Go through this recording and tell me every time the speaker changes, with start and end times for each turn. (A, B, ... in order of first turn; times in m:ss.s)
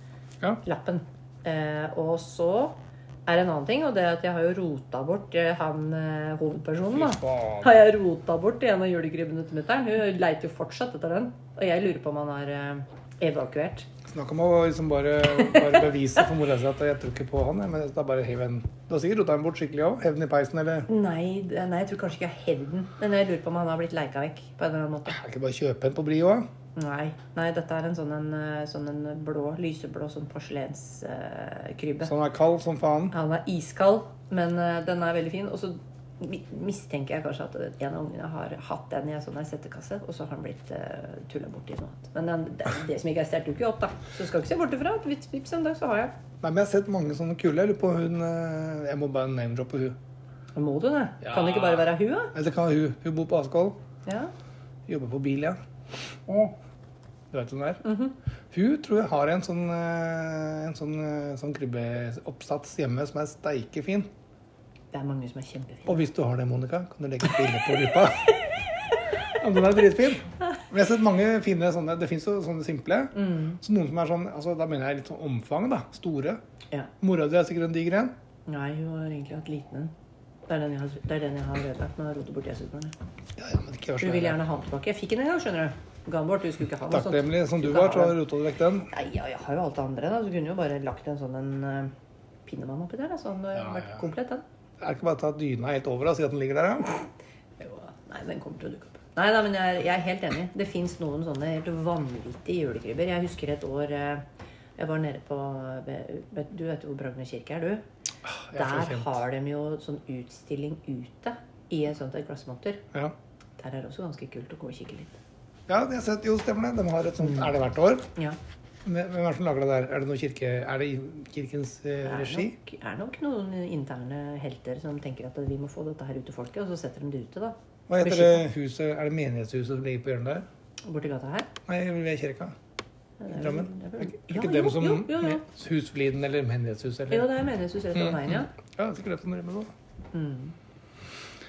0:00.6-0:13.9 A
0:06.9-0:07.8 B
0:14.1-0:20.9 B
0:20.9-0:25.2 A
0:25.1-0:26.5 B
0:26.8-0:32.1 A
0:32.0-0:33.2 B
0:33.1-0:46.1 A
0:46.4-0:50.0 B
0:50.6-0:52.4 A
0:51.2-0:53.8 B
0:54.0-0:54.3 A
0:54.9-0:55.6 B
0:57.3-0:57.8 B
0:57.8-0:58.2 A
0:58.5-1:04.1 B
1:04.9-1:06.1 A
1:05.9-1:08.3 B
1:09.3-1:16.4 B
1:13.1-1:13.6 A
1:17.0-1:18.1 B
1:18.5-1:19.9 A
1:20.5-1:23.0 A
1:23.4-1:24.4 B
1:24.0-1:28.2 A
1:26.9-1:28.9 B
1:28.9-1:31.9 A
1:32.5-1:34.4 A
1:33.6-1:34.1 B
1:34.8-1:37.1 B
1:37.6-1:44.2 A
1:44.8-1:47.8 A
1:48.2-1:49.2 B
1:48.6-1:52.8 A
1:53.6-1:55.2 A
1:55.7-1:58.1 B
1:58.8-2:02.6 B
2:02.0-2:08.5 A
2:07.9-2:10.4 B
2:10.9-2:11.5 A
2:11.7-2:12.5 B
2:13.2-2:15.4 A
2:13.3-2:17.3 B
2:17.1-2:18.5 A
2:17.9-2:19.7 B
2:20.1-2:20.6 A